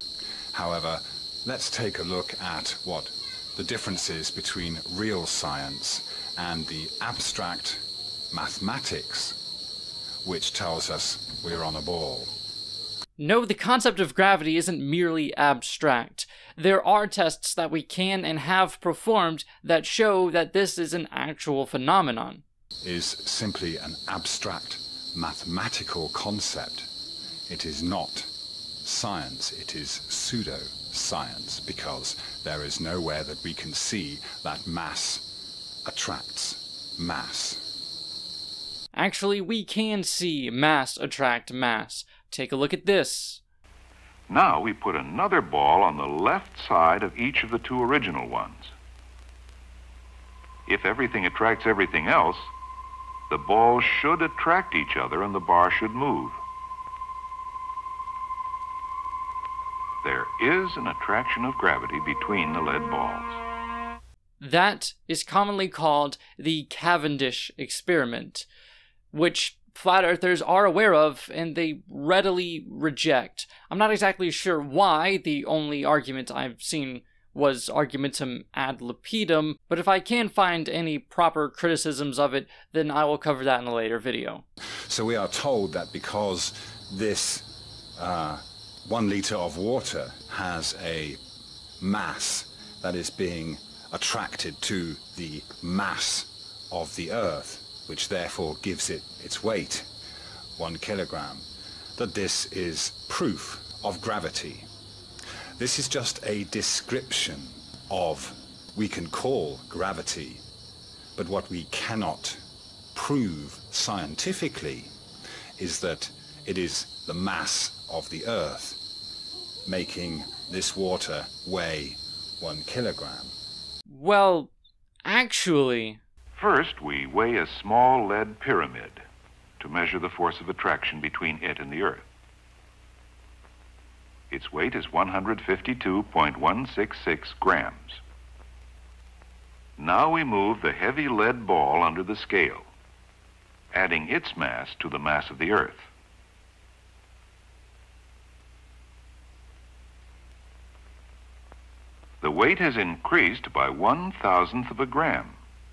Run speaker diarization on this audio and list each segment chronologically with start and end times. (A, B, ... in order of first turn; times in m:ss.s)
0:00.5-0:09.4 A
0:10.2-0:12.3 A
0:13.2-0:22.4 B
0:22.8-0:26.9 A
0:27.5-0:35.3 A
0:35.8-0:37.7 A
0:38.9-0:43.4 B
0:44.3-0:48.7 C
0:50.7-0:52.5 C
0:53.3-0:56.4 C
1:00.0-1:03.4 C
1:04.4-1:08.4 B
1:09.1-1:24.4 B
1:24.9-1:31.2 A
1:31.8-1:39.9 A
1:40.6-1:41.4 A
1:42.0-1:44.7 A
1:45.6-1:50.4 A
1:51.2-1:52.4 A
1:52.9-1:54.9 A
1:55.6-1:58.8 A
1:59.6-2:03.3 A
2:03.9-2:04.5 B
2:05.0-2:06.0 B
2:06.4-2:09.0 C
2:09.6-2:12.1 C
2:14.3-2:18.0 C
2:19.8-2:22.7 C
2:23.7-2:25.9 C
2:32.2-2:35.4 C